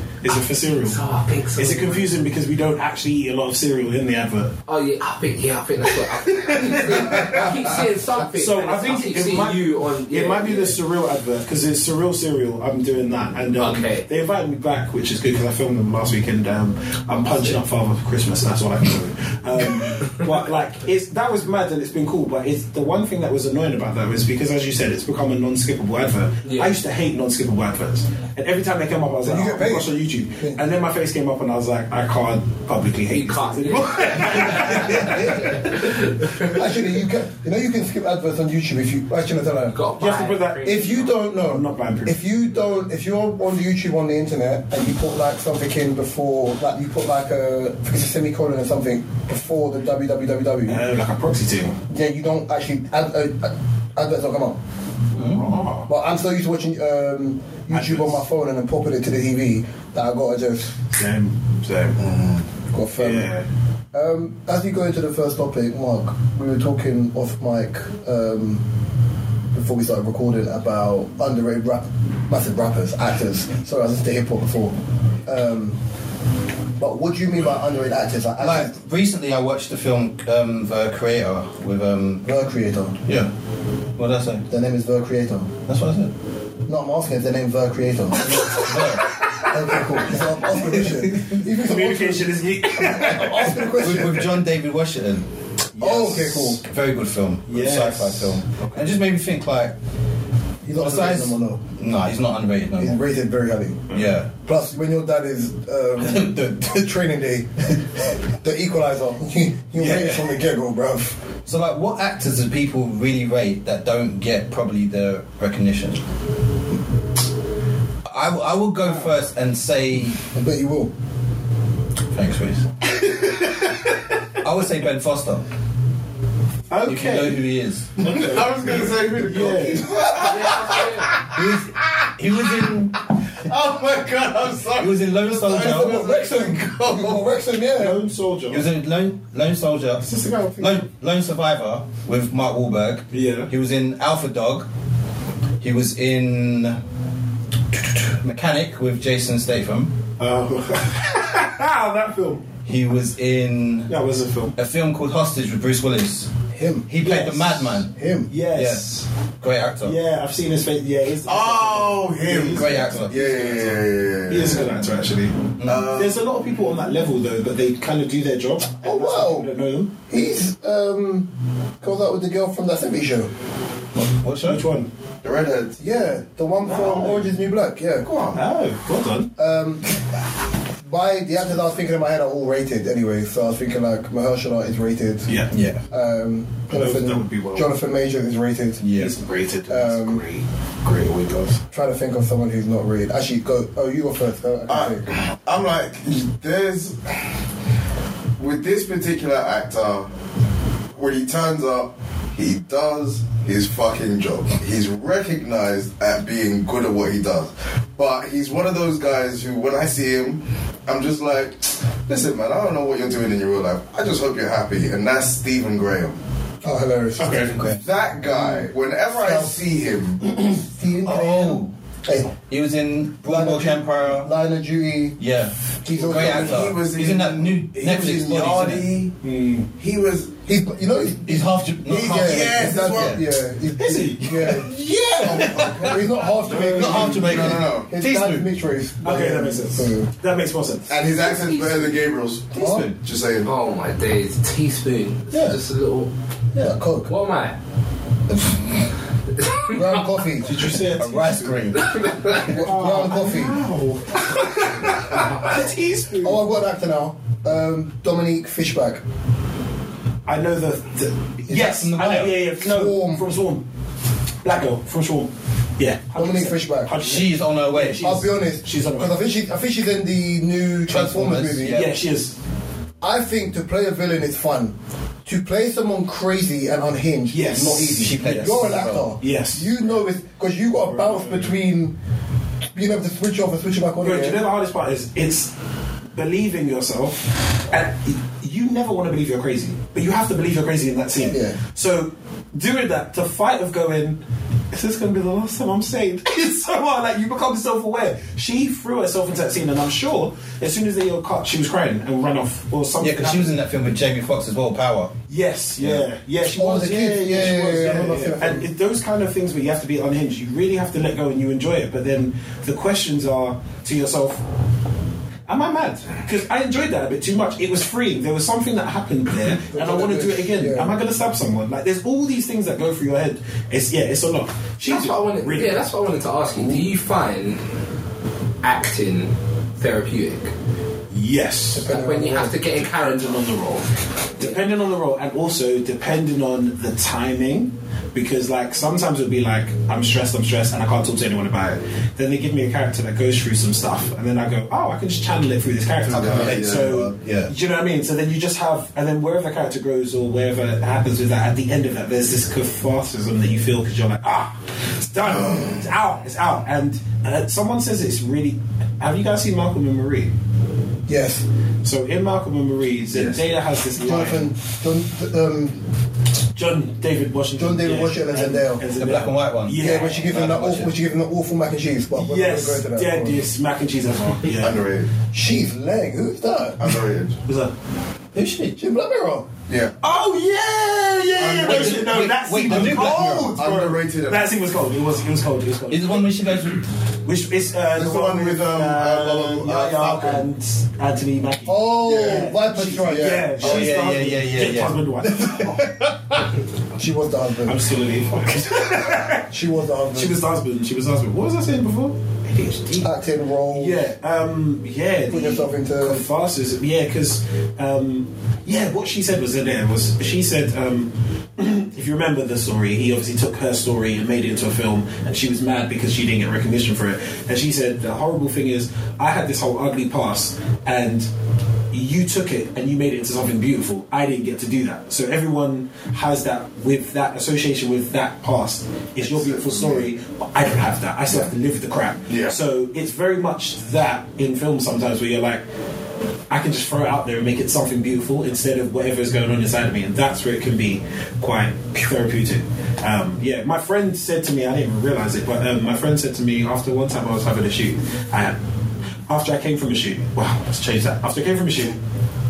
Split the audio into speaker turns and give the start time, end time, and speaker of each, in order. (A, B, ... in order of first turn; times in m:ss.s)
0:00.2-0:01.0 A
0:00.8-0:02.1 B
0:01.6-0:04.5 A
0:04.7-0:10.7 B
0:06.2-0:07.5 A
0:08.3-0:36.0 A
0:13.6-0:14.1 B
0:26.4-0:26.7 B
0:29.2-0:30.6 C
0:33.1-0:35.2 B
0:35.0-0:35.6 C
0:35.8-0:36.5 B
0:36.4-0:39.8 C
0:39.7-0:41.1 B
0:40.0-0:40.7 A
0:40.6-0:50.8 C
0:41.2-0:42.2 A
0:50.7-0:51.8 A
0:51.9-0:54.6 C
0:55.2-0:55.5 D
0:55.2-0:55.9 A
0:55.9-1:00.8 C
0:57.7-0:58.2 A
1:00.9-1:02.1 A
1:02.0-1:02.4 E
1:02.7-1:03.3 C
1:03.0-1:03.4 A
1:03.9-1:08.6 C
1:09.5-1:15.8 C
1:16.8-1:18.7 C
1:18.4-1:22.3 D
1:22.2-1:23.0 C
1:23.0-1:23.3 D
1:24.0-1:24.5 D
1:24.5-1:25.5 C
1:25.6-1:26.1 D
1:26.7-1:28.5 C
1:28.2-1:29.1 D
1:29.5-1:34.4 C
1:31.6-1:33.7 A
1:33.8-1:39.8 D
1:35.8-1:36.6 C
1:37.5-1:38.8 A
1:40.6-1:41.6 C
1:40.8-1:43.0 D
1:42.8-1:51.2 C
1:43.9-1:44.3 D
1:46.0-1:46.4 D
1:49.8-1:50.2 A
1:51.4-1:56.0 D
1:58.1-2:00.2 D
2:00.3-2:00.9 C
2:02.1-2:02.7 D
2:04.4-2:05.4 D
2:06.7-2:07.4 A
2:06.8-2:08.1 D
2:08.0-2:12.1 E
2:09.2-2:09.9 A
2:10.0-2:10.3 C
2:10.2-2:11.1 B
2:11.3-2:13.0 D
2:13.4-2:17.2 E
2:14.8-2:16.2 D
2:15.7-2:18.0 C
2:17.8-2:18.6 A
2:18.5-2:20.1 D
2:20.0-2:20.8 A
2:20.6-2:24.7 D
2:23.1-2:23.5 A
2:25.6-2:26.8 D
2:27.7-2:30.0 D
2:30.2-2:32.5 A
2:32.6-2:33.9 D
2:33.9-2:34.5 A
2:34.6-2:36.3 D
2:36.5-2:36.9 C
2:36.9-2:37.9 D
2:37.0-2:39.0 A
2:37.9-2:38.3 C
2:38.5-2:38.9 D
2:39.4-2:40.0 D
2:39.8-2:43.8 A
2:41.2-2:44.7 E
2:42.5-2:43.2 D
2:44.3-2:49.9 A
2:45.6-2:45.9 D
2:45.6-2:46.2 E
2:48.8-2:49.5 C
2:50.1-2:51.3 C
2:51.8-2:53.3 C
2:53.9-2:54.6 D
2:54.4-2:54.9 A
2:55.2-2:55.8 E
2:55.8-2:58.1 C
2:56.6-2:57.3 A
2:58.0-2:58.4 E
2:58.3-2:59.3 A
2:59.4-2:59.9 C
3:00.8-3:05.3 C
3:05.2-3:05.5 A
3:05.5-3:05.8 D
3:05.9-3:08.8 C
3:06.7-3:07.7 A
3:08.8-3:09.2 D
3:08.9-3:11.6 A
3:09.7-3:10.2 C
3:11.7-3:15.1 C
3:14.7-3:17.3 E
3:18.4-3:20.1 E
3:20.9-3:36.2 E
3:36.6-3:37.5 C
3:37.2-3:37.5 A
3:37.4-3:37.8 D
3:37.8-3:40.2 E
3:38.2-3:39.6 C
3:40.2-3:42.3 C
3:41.0-3:41.7 D
3:42.5-3:44.3 D
3:43.2-3:45.2 C
3:45.2-3:48.9 D
3:45.8-3:46.8 C
3:46.0-3:49.1 E
3:49.2-3:49.7 A
3:49.8-3:50.3 E
3:50.4-4:00.1 C
3:51.2-3:53.2 D
3:51.9-3:53.2 E
3:53.8-3:57.5 A
3:55.2-3:55.9 E
3:56.7-3:58.5 D
3:57.0-3:57.9 E
3:59.0-4:00.9 A
4:00.9-4:03.5 E
4:01.1-4:02.0 B
4:02.5-4:03.0 D
4:02.6-4:02.9 C
4:03.4-4:06.1 B
4:05.3-4:05.6 A
4:06.5-4:07.1 C
4:07.0-4:07.6 B
4:09.5-4:09.8 B
4:09.7-4:10.7 C
4:10.4-4:11.6 A
4:10.9-4:12.1 D
4:11.7-4:12.5 B
4:12.4-4:13.6 C
4:12.5-4:16.4 A
4:15.1-4:15.4 B
4:16.2-4:19.0 C
4:20.2-4:23.6 A
4:21.5-4:22.4 D
4:22.5-4:23.2 C
4:24.4-4:29.2 A
4:26.2-4:27.0 C
4:27.0-4:28.2 D
4:28.0-4:31.8 C
4:30.9-4:31.9 D
4:31.7-4:32.3 A
4:33.0-4:34.7 C
4:35.2-4:41.9 C
4:37.3-4:38.6 A
4:38.0-4:39.1 D
4:39.2-4:39.8 A
4:40.9-4:41.6 A
4:42.7-4:44.4 C
4:44.0-4:45.5 A
4:46.1-4:54.2 A
4:51.2-4:51.6 C
4:54.7-5:03.6 A
5:03.0-5:05.1 D
5:05.3-5:14.4 A
5:05.8-5:06.0 D
5:06.5-5:08.6 C
5:15.5-5:25.8 A
5:19.7-5:20.9 C
5:24.8-5:27.6 B
5:28.6-5:30.5 B
5:31.1-5:32.0 A
5:31.7-5:32.6 C
5:31.8-5:33.5 B
5:32.6-6:00.3 A
5:46.1-5:47.1 E
5:46.2-5:47.5 D
5:55.3-5:55.8 E
6:01.1-6:01.4 C
6:01.8-6:04.5 A
6:03.9-6:05.8 C
6:06.5-6:10.8 A
6:07.6-6:08.8 C
6:09.0-6:10.9 D
6:09.8-6:13.4 C
6:12.1-6:14.8 A
6:14.6-6:15.1 E
6:15.3-6:17.0 C
6:16.8-6:17.4 E
6:17.4-6:17.7 A
6:18.3-6:18.8 D
6:18.8-6:19.5 C
6:20.0-6:26.4 A
6:21.4-6:24.5 E
6:21.6-6:23.6 D
6:25.9-6:26.8 D
6:27.2-6:35.7 A
6:27.9-6:30.4 E
6:31.7-6:33.9 C
6:32.0-6:32.5 E
6:33.6-6:36.4 D
6:37.0-6:37.8 C
6:37.6-6:39.5 A
6:39.5-6:40.4 C
6:40.1-6:43.1 A
6:43.0-6:44.0 C
6:43.7-7:01.3 A
6:45.3-6:46.2 C
7:01.9-7:15.6 A
7:09.2-7:10.0 E
7:12.3-7:12.5 E
7:16.5-7:28.6 A
7:29.3-7:32.0 A